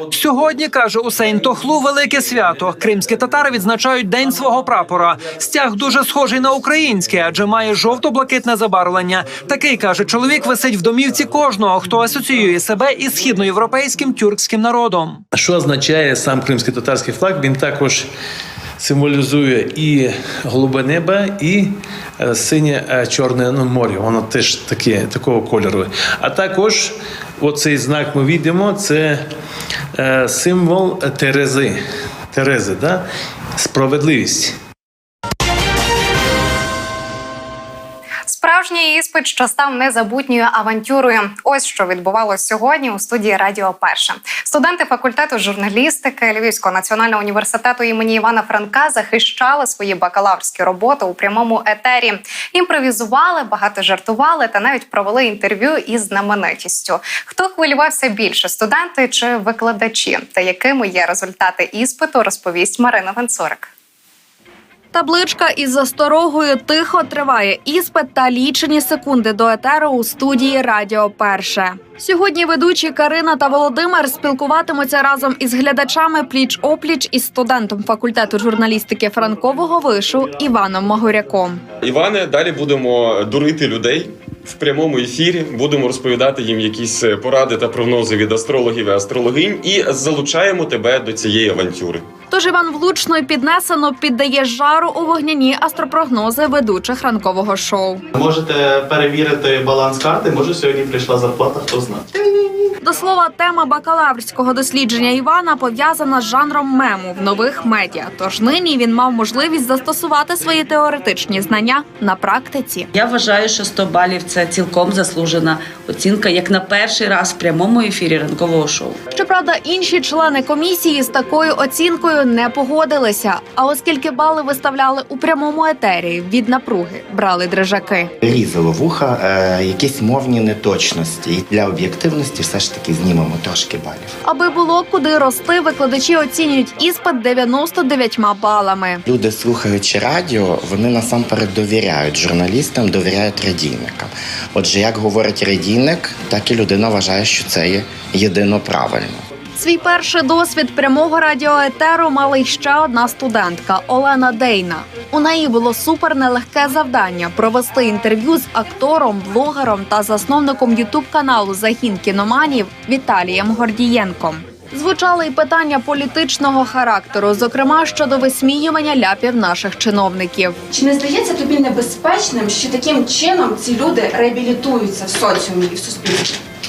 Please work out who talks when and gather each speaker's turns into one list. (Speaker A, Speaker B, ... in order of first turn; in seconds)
Speaker A: 0.1-15.2
Speaker B: 15.3-18.1, 18.8-29.2, 29.9-31.8, 32.3-33.0, 33.6-34.5
Speaker C: 38.3-63.7
Speaker D: 64.9-81.6, 92.3-98.0, 102.8-112.9, 119.1-128.1, 134.2-139.0, 149.6-170.6
Speaker E: 81.8-92.0
Speaker F: 98.2-102.0
Speaker G: 112.9-119.0
Speaker H: 128.2-134.1, 139.1-149.2
Speaker I: 170.7-176.2